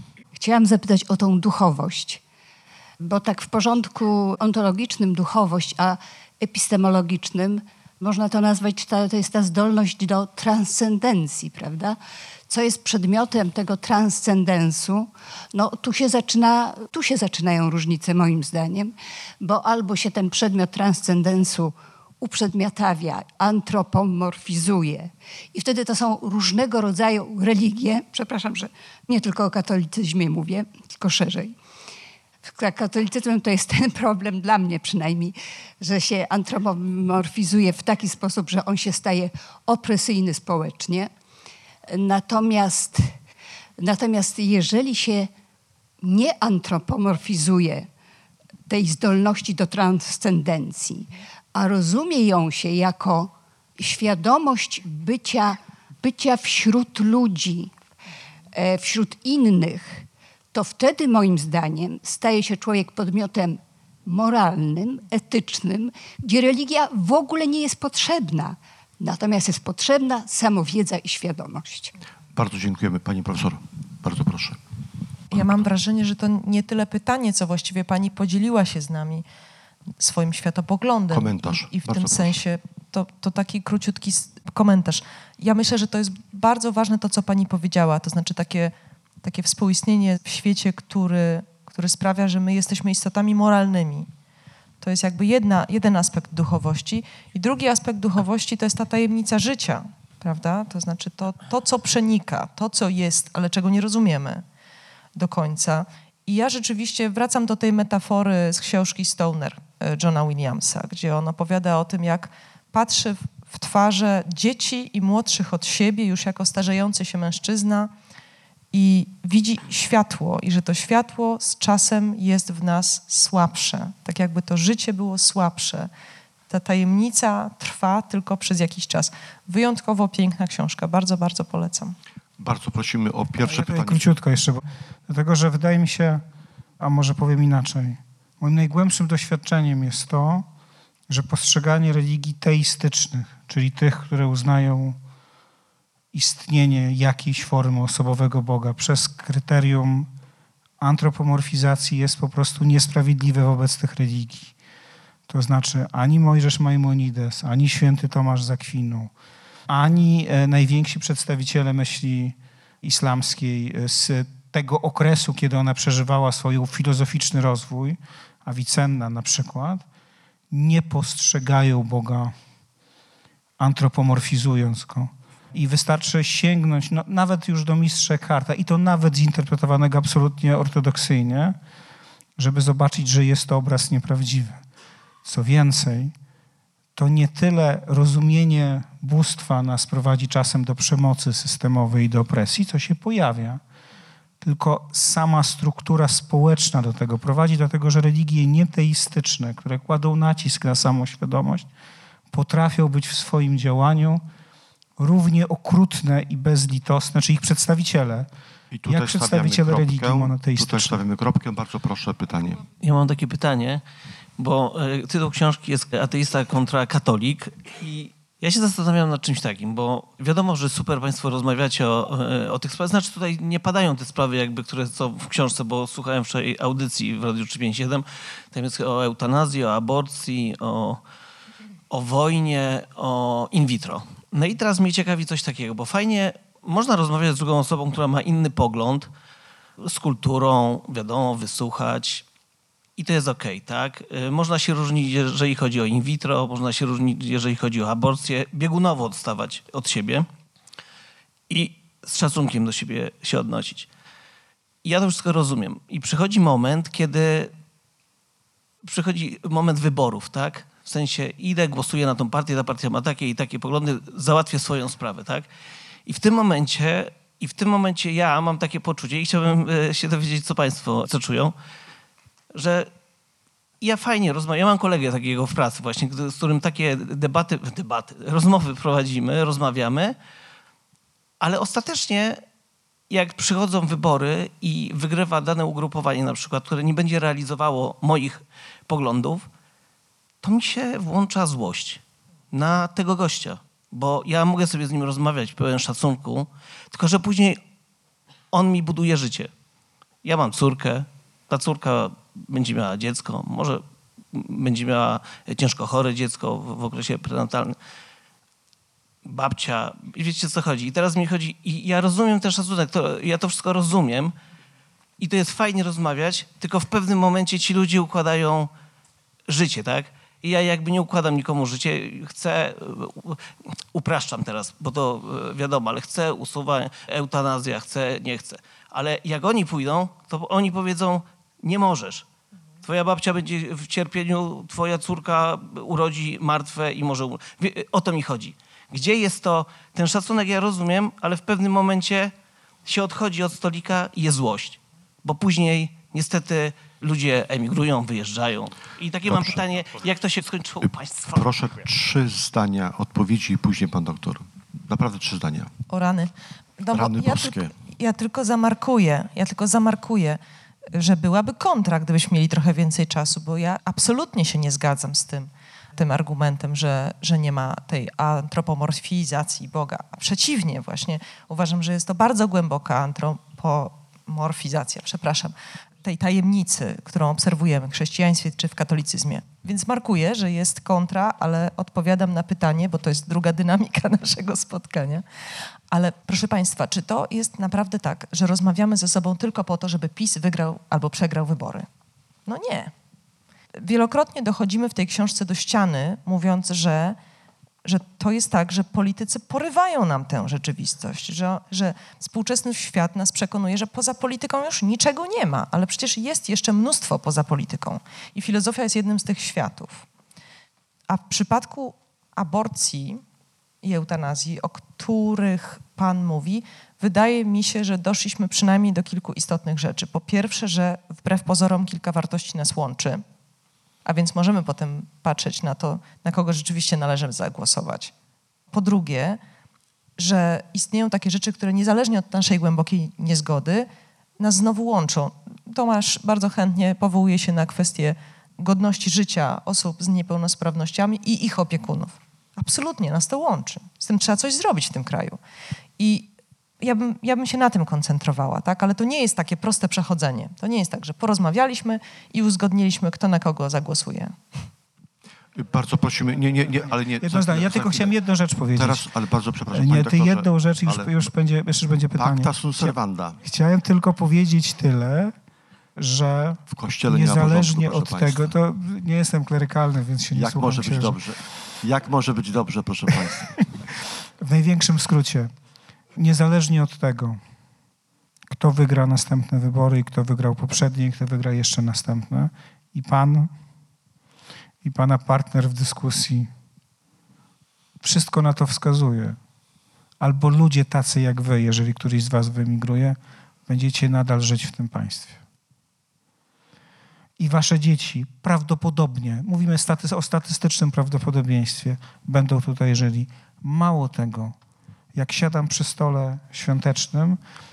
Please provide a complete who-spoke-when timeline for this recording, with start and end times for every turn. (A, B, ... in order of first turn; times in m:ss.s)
0:00.4-0:02.2 A
0:03.0-0:31.6 A
0:32.4-0:41.1 A
0:41.9-0:43.1 A
0:43.8-0:45.3 A
0:46.0-0:47.9 A
0:48.7-0:57.7 A
0:58.5-1:11.9 A
1:12.3-1:14.6 B
1:15.3-1:19.2 C
1:20.0-1:34.1 C
1:21.1-1:22.4 B
1:34.8-1:44.4 C
1:45.2-1:57.9 C
1:58.7-2:05.9 C
2:06.5-2:12.0 C
2:12.4-2:14.1 B
2:13.4-2:16.2 D
2:16.8-2:20.5 D
2:21.1-2:25.0 D
2:26.1-2:30.1 D
2:30.8-2:34.5 D
2:35.3-2:39.1 D
2:39.7-2:49.8 D
2:50.5-2:52.3 D
2:53.6-3:01.6 D
3:02.4-3:04.6 D
3:05.2-3:06.1 D
3:07.0-3:13.6 D
3:14.4-3:21.7 D
3:22.3-3:24.2 D
3:25.0-3:28.3 D
3:28.7-3:32.6 B
3:28.9-3:31.0 D
3:32.8-3:33.8 E
3:34.4-3:51.0 E
3:51.9-3:59.1 E
3:59.8-4:02.2 E
4:03.0-4:10.3 E
4:11.5-4:13.9 E
4:14.8-4:17.5 E
4:18.8-4:25.5 E
4:26.1-4:31.5 E
4:32.5-4:32.9 E
4:33.8-4:40.2 E
4:41.4-4:42.4 E
4:43.1-4:49.5 E
4:50.4-4:57.6 E
4:58.5-4:59.5 E
5:00.2-5:07.8 E
5:09.2-5:14.4 E
5:15.2-5:18.7 E
5:19.5-5:23.4 E
5:23.9-5:32.2 E
5:32.8-5:42.3 E
5:42.9-5:51.5 E
5:49.3-5:49.6 B
5:51.3-5:55.7 B
5:55.9-6:00.4 C
5:56.9-5:57.7 B
6:00.9-6:25.2 C
6:25.9-6:31.9 C
6:32.5-6:32.9 C
6:33.8-6:37.2 C
6:37.8-6:50.0 C
6:51.1-6:53.2 C
6:53.8-7:03.2 C
7:04.0-7:08.1 C
7:08.7-7:09.4 C
7:10.2-7:13.9 C
7:14.4-7:25.4 C
7:26.0-7:26.3 C
7:26.8-7:34.4 C
7:35.6-7:38.1 B
7:37.2-7:39.1 D
7:38.8-7:41.3 B
7:39.7-7:45.3 D
7:42.2-7:43.4 B
7:46.0-7:51.2 D
7:46.7-7:48.5 B
7:50.3-7:53.6 B
7:54.4-7:55.5 D
7:56.2-7:57.4 D
7:58.5-8:03.5 D
8:04.8-8:06.5 D
8:08.0-8:09.4 D
8:10.2-8:15.4 D
8:17.4-8:24.6 D
8:25.2-8:27.4 D